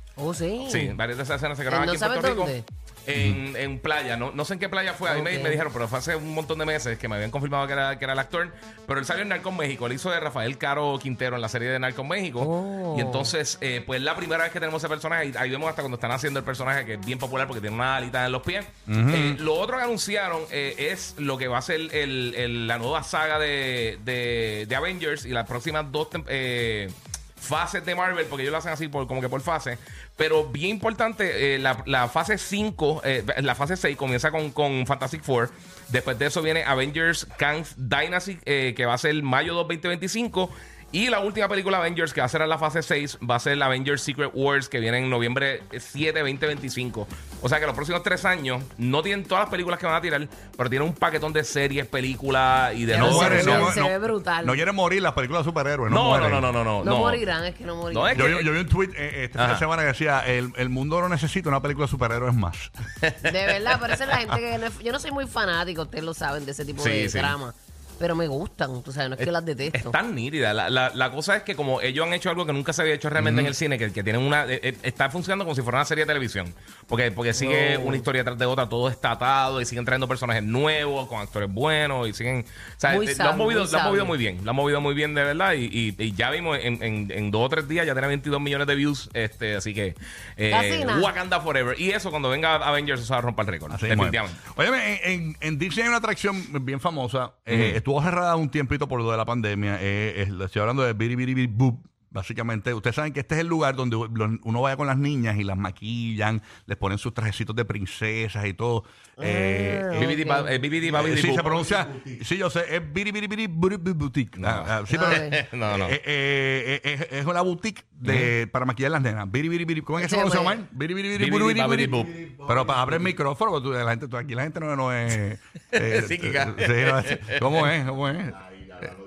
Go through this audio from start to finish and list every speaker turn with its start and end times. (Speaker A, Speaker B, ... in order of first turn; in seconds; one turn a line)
Speaker A: 0.2-1.0
Speaker B: 0.6-53.7
Speaker A: 1.7-2.6
Speaker C: 3.1-3.4
Speaker A: 5.1-5.6
Speaker A: 12.4-13.3
Speaker C: 18.9-19.4
Speaker A: 52.9-54.6
Speaker C: 52.9-56.5
Speaker B: 55.9-57.2
Speaker A: 56.8-58.3
Speaker B: 57.9-58.5
Speaker C: 58.1-62.7
Speaker B: 59.4-59.6
Speaker B: 63.0-63.9
Speaker A: 63.2-70.0
Speaker B: 66.8-67.3
Speaker B: 69.2-94.4
Speaker C: 73.2-73.5
Speaker A: 77.3-78.1
Speaker A: 82.9-84.2
Speaker A: 90.5-91.1
Speaker C: 93.7-110.2
Speaker B: 97.5-97.8
Speaker A: 109.2-110.5
Speaker B: 110.0-111.9
Speaker C: 110.9-128.9
Speaker B: 114.4-116.0
Speaker A: 114.9-115.4
Speaker B: 118.0-118.3
Speaker A: 120.0-120.6
Speaker B: 121.1-122.2
Speaker B: 125.7-127.7